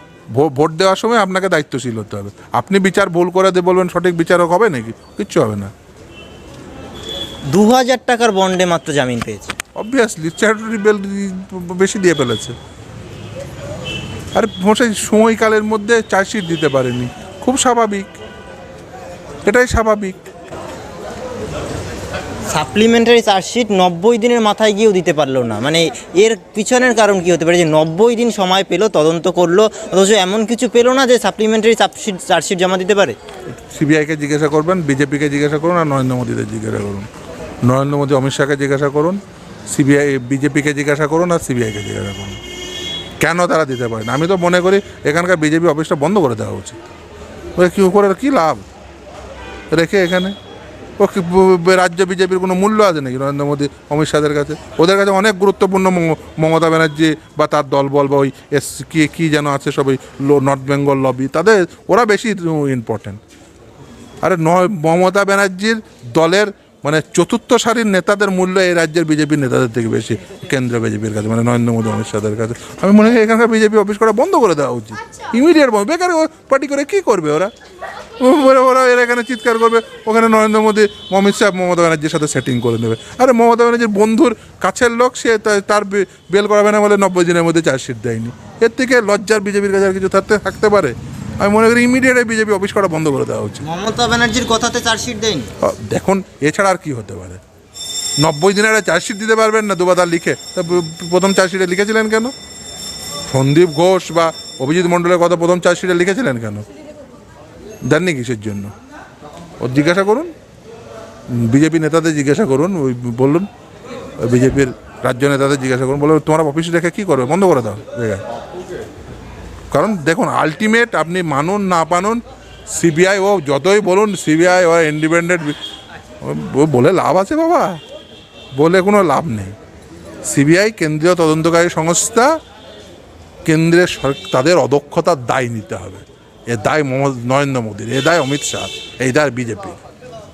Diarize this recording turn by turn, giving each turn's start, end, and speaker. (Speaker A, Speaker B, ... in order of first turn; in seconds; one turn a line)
Speaker A: 0.3-5.7
Speaker B: 7.5-9.6
Speaker A: 9.8-12.6
Speaker A: 14.3-18.1
Speaker A: 19.4-20.2
Speaker B: 22.5-33.2
Speaker A: 33.5-37.1
Speaker A: 37.6-39.2
Speaker A: 39.7-42.4
Speaker A: 43.2-46.8
Speaker A: 47.6-48.7
Speaker A: 49.7-50.4
Speaker A: 51.0-63.2
Speaker A: 64.2-77.5
Speaker A: 78.2-93.6
Speaker B: 93.6-95.5
Speaker A: 95.6-97.4
Speaker A: 98.2-102.3
Speaker A: 103.3-106.7
Speaker A: 107.9-108.7
Speaker A: 109.6-110.3
Speaker A: 111.3-113.5
Speaker A: 114.2-118.2
Speaker A: 119.7-125.6
Speaker A: 126.2-127.8
Speaker A: 128.6-129.6
Speaker A: 130.3-132.4
Speaker A: 133.4-139.8